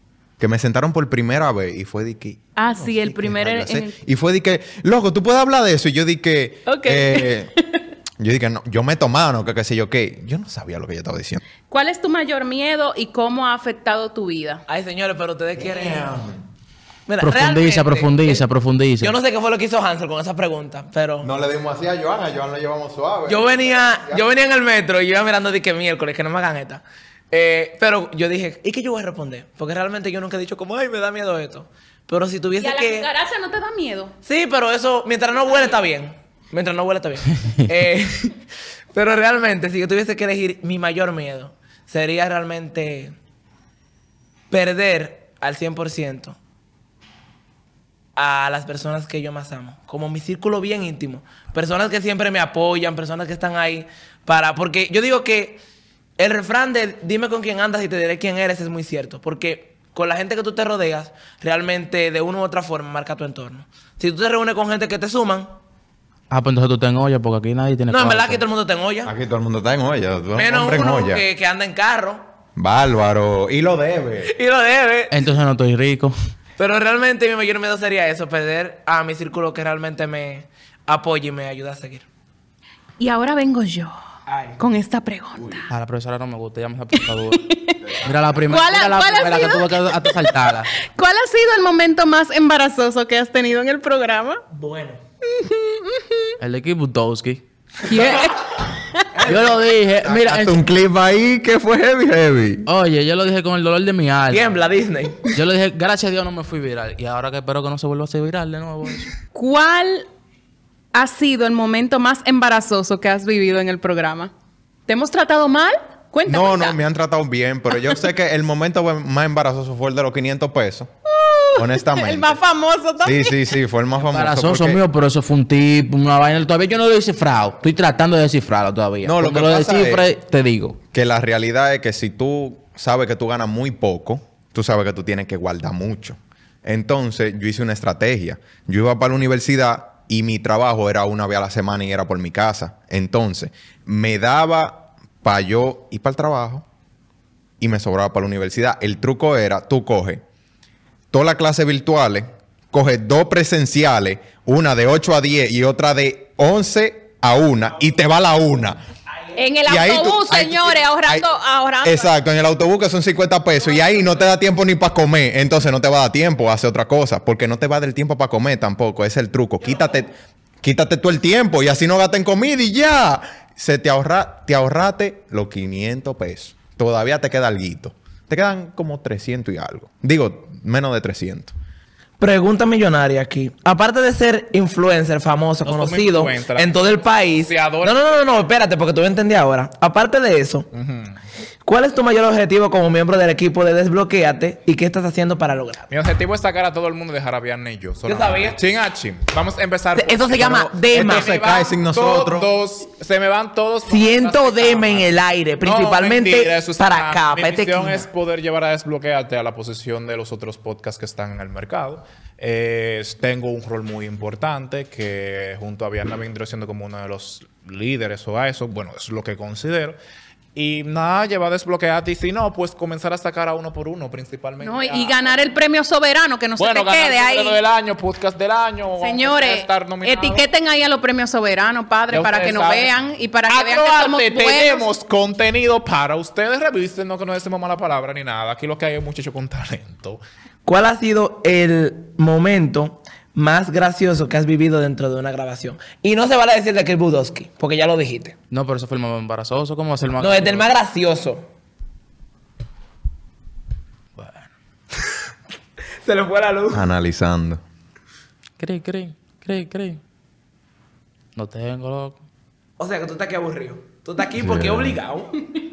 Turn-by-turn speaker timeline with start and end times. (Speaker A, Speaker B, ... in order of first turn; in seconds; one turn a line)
Speaker A: 0.4-7.5
Speaker B: 2.6-4.0
Speaker B: 6.7-7.8
Speaker A: 8.2-11.4
Speaker B: 11.7-14.6
Speaker C: 14.7-16.1
Speaker A: 15.6-16.4
Speaker C: 17.1-18.4
Speaker D: 17.2-19.1
Speaker C: 19.0-21.3
Speaker A: 21.2-24.2
Speaker C: 23.3-33.1
Speaker B: 32.6-34.1
Speaker C: 34.2-38.4
Speaker C: 38.9-43.1
Speaker C: 44.5-46.4
Speaker C: 48.2-55.6
Speaker C: 56.2-65.5
Speaker D: 66.3-68.4
Speaker C: 67.9-69.1
Speaker A: 69.0-71.2
Speaker C: 70.4-72.2
Speaker A: 72.6-74.3
Speaker C: 74.3-75.2
Speaker D: 75.1-76.2
Speaker C: 76.6-82.1
Speaker B: 83.0-84.0
Speaker C: 84.3-84.6
Speaker B: 84.6-85.7
Speaker D: 85.7-90.7
Speaker B: 87.0-94.4
Speaker C: 94.5-95.0
Speaker B: 95.3-96.3
Speaker D: 96.4-97.4
Speaker B: 97.9-99.2
Speaker C: 99.2-99.6
Speaker D: 99.2-100.6
Speaker A: 100.0-102.7
Speaker D: 102.7-104.6
Speaker C: 104.3-105.3
Speaker D: 105.2-109.1
Speaker B: 109.3-110.1
Speaker B: 110.9-114.3
Speaker B: 114.9-116.8
Speaker A: 116.3-120.9
Speaker B: 121.1-123.4
Speaker A: 121.5-122.4
Speaker A: 123.0-124.8
Speaker D: 124.0-130.8
Speaker A: 129.0-130.1
Speaker A: 130.9-146.7
Speaker A: 147.6-150.2
Speaker A: 151.1-158.8
Speaker C: 159.1-159.4
Speaker B: 159.4-162.1
Speaker A: 159.7-161.3
Speaker A: 161.8-170.1
Speaker C: 163.6-164.3
Speaker C: 169.6-169.9
Speaker A: 170.6-181.5
Speaker C: 182.2-190.7
Speaker E: 185.6-186.8
Speaker E: 187.3-188.1
Speaker E: 190.7-191.2
Speaker C: 191.7-195.9
Speaker E: 195.9-220.0
Speaker C: 198.1-198.6
Speaker C: 200.0-201.3
Speaker A: 201.0-202.5
Speaker C: 203.9-208.1
Speaker E: 220.6-225.4
Speaker B: 224.6-227.6
Speaker E: 226.6-230.5
Speaker B: 229.0-234.8
Speaker E: 232.1-232.9
Speaker E: 233.5-240.2
Speaker C: 240.7-248.4
Speaker D: 248.5-250.7
Speaker C: 250.2-251.4
Speaker D: 254.2-254.5
Speaker C: 256.0-256.9
Speaker A: 256.7-257.6
Speaker D: 258.6-260.0
Speaker D: 261.4-262.2
Speaker C: 262.8-265.4
Speaker A: 264.4-265.0